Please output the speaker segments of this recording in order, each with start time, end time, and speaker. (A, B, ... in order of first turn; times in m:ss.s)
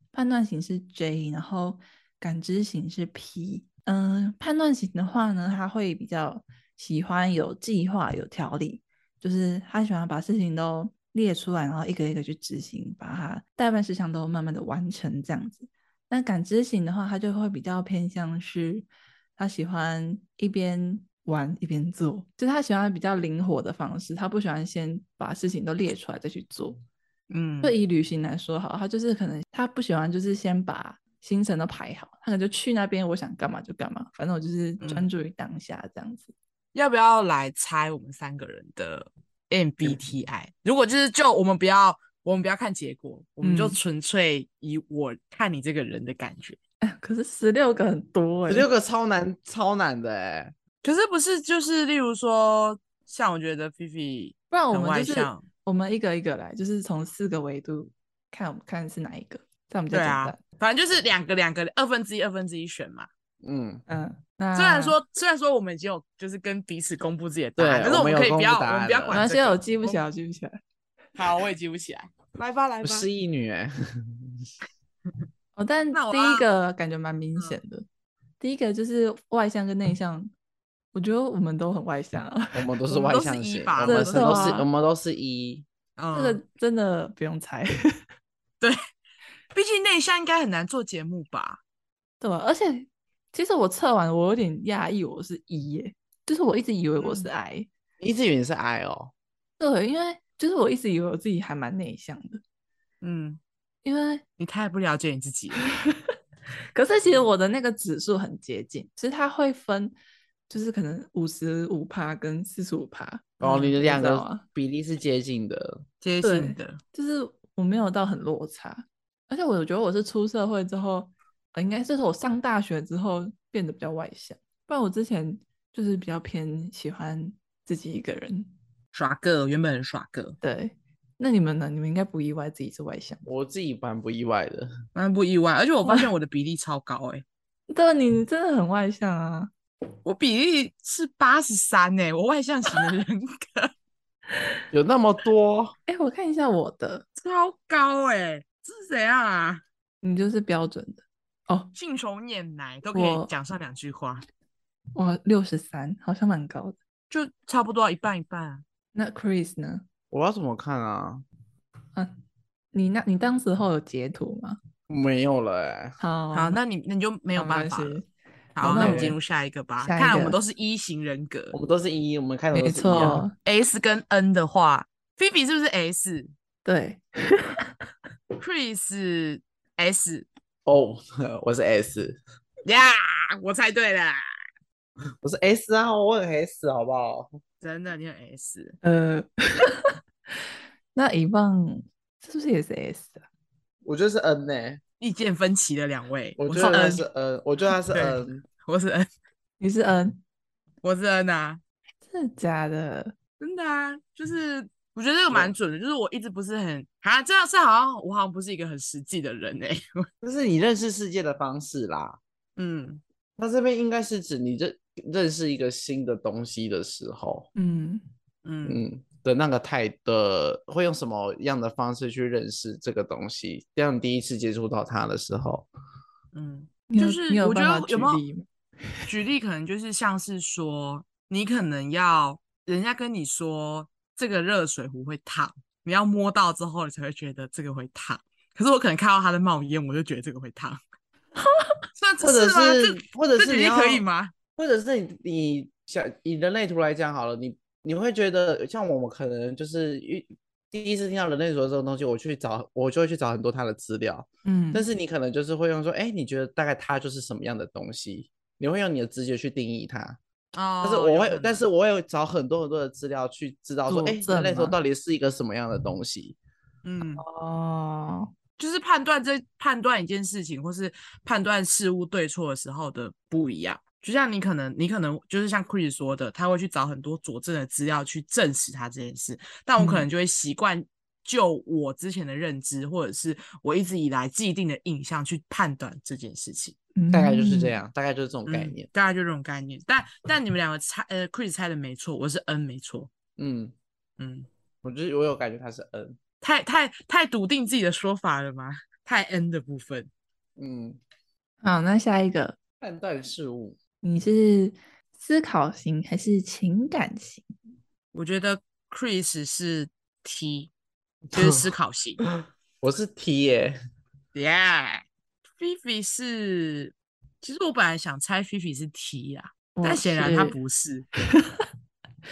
0:00.1-0:26.8 A
0:27.3-0:27.8 B
0:27.6-0:36.3 A
0:34.8-0:35.1 B
0:36.7-0:46.6 B
0:43.4-0:43.8 A
0:46.8-0:48.7 A
0:48.5-0:50.6 C
0:50.8-0:55.4 B
0:54.5-1:00.4 A
0:59.9-1:03.1 B
1:03.4-1:03.8 C
1:03.9-1:05.0 A
1:04.6-1:10.0 B
1:07.6-1:09.2 C
1:09.1-1:10.6 A
1:11.2-1:13.1 B
1:12.8-1:14.4 C
1:15.6-1:17.9 A
1:15.9-1:16.5 B
1:18.4-1:20.3 A
1:20.9-1:22.7 A
1:22.5-1:25.7 C
1:22.9-1:24.5 B
1:23.9-1:24.7 A
1:26.0-1:26.4 B
1:26.1-1:27.7 A
1:29.5-1:31.6 B
1:32.2-1:37.7 A
1:37.0-1:37.3 B
1:38.0-1:39.1 C
1:39.6-1:42.4 A
1:43.0-1:43.4 B
1:43.8-1:44.2 A
1:44.4-1:45.6 B
1:45.6-1:46.1 A
1:46.8-1:49.9 A
1:50.5-1:54.4 A
1:53.4-1:55.8 C
1:56.0-1:56.8 B
1:56.2-2:08.5 A
2:08.9-2:10.4 B
2:10.4-2:13.2 A
2:13.2-2:14.7 C
2:15.0-2:17.2 B
2:15.8-2:16.1 A
2:17.7-2:19.5 A
2:20.0-2:23.7 B
2:24.7-2:25.8 C
2:25.9-2:27.0 A
2:27.2-2:29.6 B
2:30.0-2:31.7 A
2:31.8-2:34.2 B
2:32.9-2:33.3 A
2:35.0-2:36.8 A
2:37.1-2:38.6 B
2:39.0-2:39.8 A
2:40.1-2:41.2 C
2:42.7-2:44.6 A
2:44.9-2:46.0 C
2:46.0-2:46.6 A
2:46.3-2:48.0 B
2:47.4-2:48.1 A
2:48.6-2:51.6 B
2:48.6-2:49.2 A
2:48.6-2:49.2 C
2:49.8-2:50.4 A
2:51.5-2:53.2 C
2:52.5-2:53.3 A
2:53.4-2:56.3 B
2:56.6-2:57.7 A
2:58.4-3:00.3 B
3:00.7-3:02.2 C
3:02.7-3:04.2 B
3:05.2-3:07.4 C
3:07.6-3:08.8 B
3:08.8-3:10.0 A
3:11.0-3:13.3 A
3:13.8-3:14.8 C
3:15.0-3:17.1 B
3:16.4-3:18.4 C
3:17.9-3:19.1 B
3:19.6-3:20.2 A
3:20.8-3:21.6 B
3:22.1-3:23.2 A
3:23.4-3:30.1 B
3:25.3-3:25.5 C
3:30.2-3:32.2 C
3:32.6-3:33.0 B
3:33.4-3:37.5 C
3:37.6-3:38.0 A
3:38.4-3:38.8 B
3:38.6-3:45.7 C
3:46.3-3:48.2 B
3:46.9-3:48.5 A
3:49.1-4:00.8 B
4:02.0-4:04.3 B
4:02.2-4:04.0 C
4:04.6-4:20.2 C
4:14.4-4:14.8 A
4:20.5-4:21.6 B
4:20.8-4:26.4 C
4:23.9-4:24.8 A
4:26.8-4:27.2 B
4:27.2-4:28.3 A
4:28.6-4:46.8 B
4:39.8-4:40.1 A
4:47.0-4:47.8 A
4:47.1-4:48.9 C
4:48.5-4:53.1 B
4:53.4-4:53.7 C
4:54.2-4:54.5 B
4:54.8-4:56.2 C
4:56.4-5:00.1 B
5:00.6-5:01.0 C
5:01.6-5:02.6 A
5:02.8-5:03.8 C
5:04.0-5:07.5 A
5:08.1-5:10.7 B
5:11.3-5:11.7 C
5:11.3-5:12.2 B
5:12.8-5:13.8 C
5:14.4-5:15.0 B
5:15.6-5:21.1 B
5:19.8-5:20.6 A
5:21.3-5:21.6 A